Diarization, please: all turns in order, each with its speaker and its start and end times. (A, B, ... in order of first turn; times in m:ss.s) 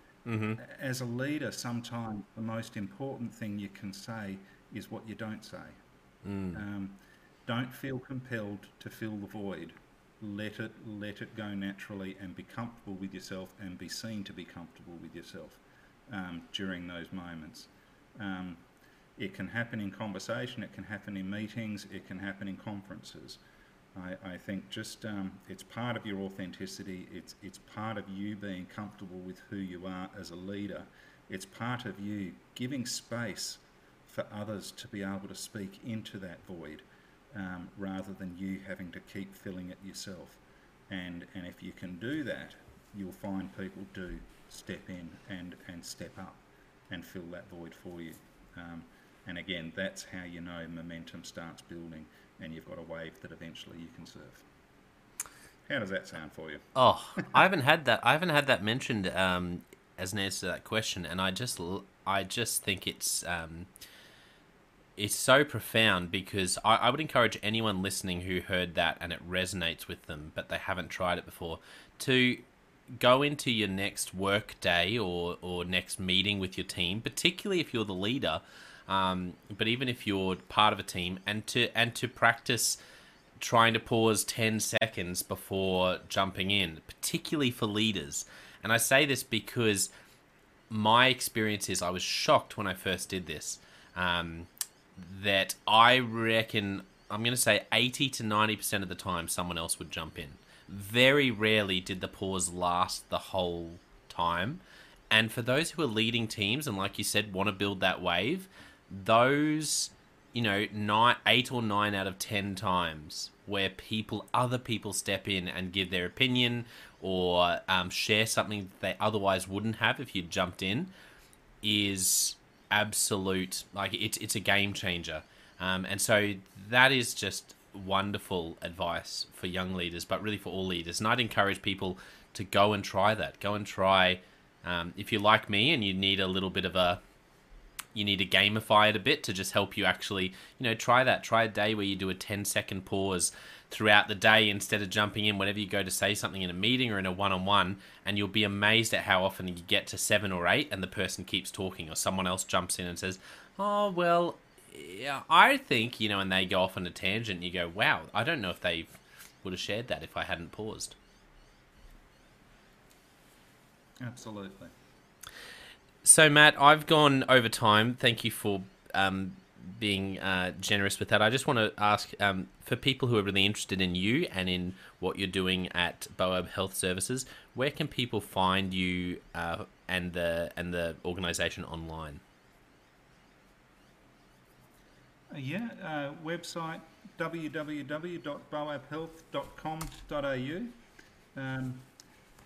0:00.3-0:00.6 A
0:00.6-0:05.8 B
0:06.2-0:06.6 A
0:06.5-0:18.6 B
0:19.2-0:23.4 B
0:24.0-0:54.5 B
0:55.7-0:57.5 B
0:56.8-1:03.7 A
1:05.0-1:12.4 A
1:13.0-1:22.8 A
1:23.4-1:29.9 A
1:30.7-2:00.9 A
2:01.6-2:17.0 A
2:18.0-2:41.0 A
2:44.0-2:44.7 B
2:46.0-3:02.2 A
3:05.3-3:10.8 B
3:11.4-3:11.9 B